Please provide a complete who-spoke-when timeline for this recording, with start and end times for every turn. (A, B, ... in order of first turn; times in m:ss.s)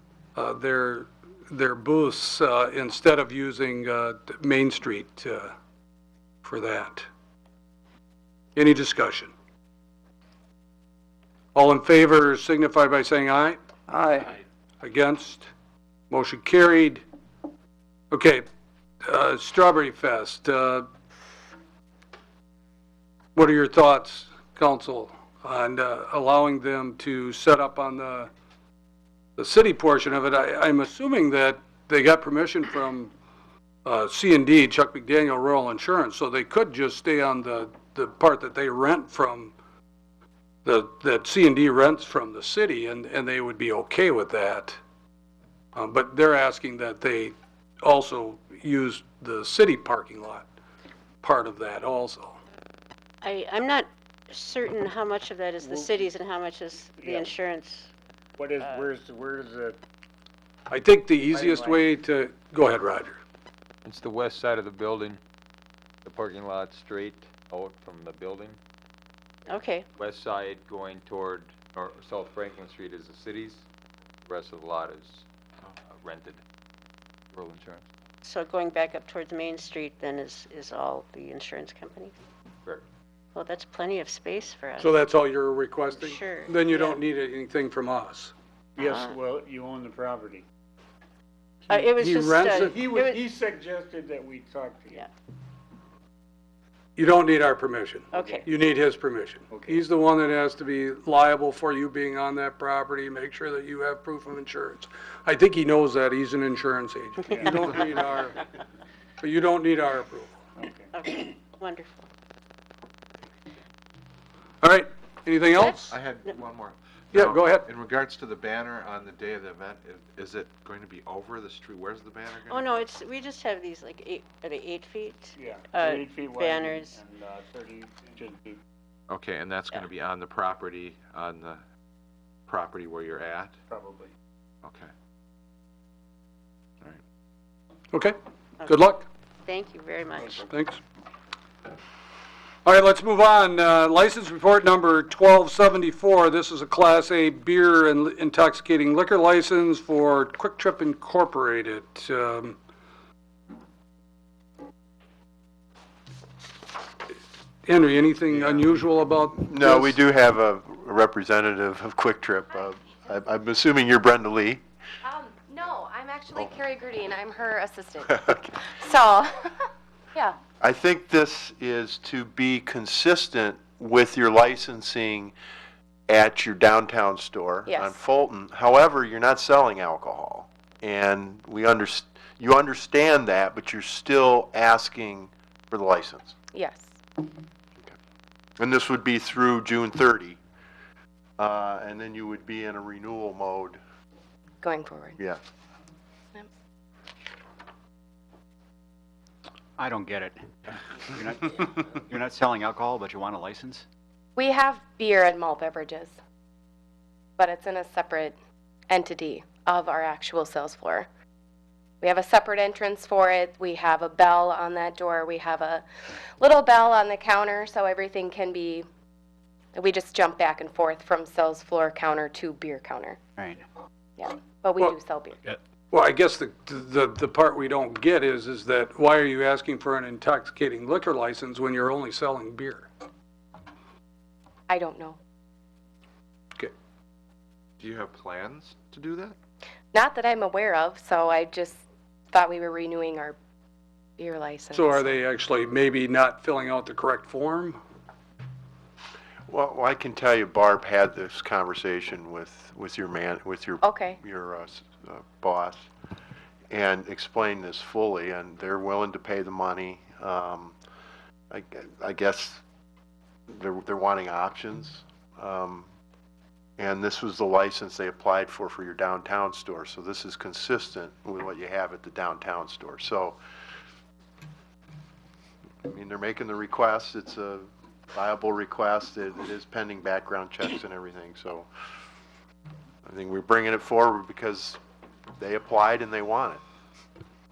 0:00.4-0:05.5 A
0:06.4-0:07.1 A
0:08.6-0:09.3 A
0:11.5-0:13.6 A
0:14.2-0:15.5 A
0:16.1-0:17.0 A
0:18.1-0:18.4 A
0:19.0-0:20.9 A
0:23.3-0:28.3 A
0:29.4-0:33.1 A
0:33.8-0:39.5 A
0:40.6-0:44.8 A
0:45.7-0:50.4 A
0:51.2-0:52.4 A
0:53.2-0:57.9 B
0:55.6-0:56.0 C
0:57.0-0:57.3 C
0:58.4-0:59.8 C
0:58.6-0:58.9 B
1:00.7-1:03.2 A
1:01.3-1:01.8 C
1:03.8-1:05.2 D
1:06.0-1:08.6 D
1:09.5-1:09.9 B
1:09.9-1:13.6 D
1:14.2-1:15.2 D
1:15.8-1:16.4 D
1:17.3-1:17.8 D
1:18.2-1:22.1 B
1:23.3-1:24.9 B
1:24.8-1:28.3 A
1:26.0-1:27.0 B
1:28.8-1:30.4 C
1:28.8-1:29.2 B
1:31.7-1:33.2 B
1:32.0-1:32.8 A
1:32.7-1:35.0 C
1:37.0-1:48.4 A
1:38.1-1:38.5 B
1:39.5-1:39.8 C
1:49.2-1:50.4 A
1:50.6-1:50.9 C
1:50.9-1:52.1 B
1:54.6-1:55.9 A
1:55.9-2:02.7 E
1:57.1-1:57.7 A
2:02.5-2:07.0 B
2:05.4-2:08.6 C
2:09.1-2:11.6 E
2:12.5-2:13.6 E
2:13.7-2:14.1 C
2:14.6-2:14.9 E
2:17.9-2:19.0 A
2:18.6-2:18.9 B
2:19.4-2:20.5 B
2:20.4-2:20.8 A
2:22.6-2:32.6 A
2:37.6-2:40.0 A
2:38.3-2:38.7 F
2:39.4-2:44.6 F
2:45.0-2:50.4 G
2:50.6-2:55.3 F
2:56.1-3:06.3 F
2:57.7-2:58.0 G
3:06.5-3:07.0 G
3:08.6-3:10.4 F
3:11.4-3:13.8 F
3:14.6-3:15.2 G
3:19.8-3:23.8 H
3:24.4-3:26.2 G
3:27.4-3:28.3 G
3:28.9-3:31.1 G
3:32.0-3:38.8 G
3:39.7-3:43.2 G
3:43.4-3:43.6 H
3:44.2-3:45.4 G
3:45.9-3:52.9 A
3:54.7-3:55.2 G
3:57.8-3:59.4 E
3:59.9-4:03.4 G
4:04.2-4:05.1 G
4:04.7-4:07.8 A
4:09.5-4:15.9 F
4:13.8-4:14.2 G
4:16.7-4:20.7 F
4:21.5-4:22.6 F
4:23.5-4:25.9 F
4:26.8-4:33.4 F
4:35.8-4:41.7 F
4:43.0-4:44.8 F
4:45.4-4:46.6 F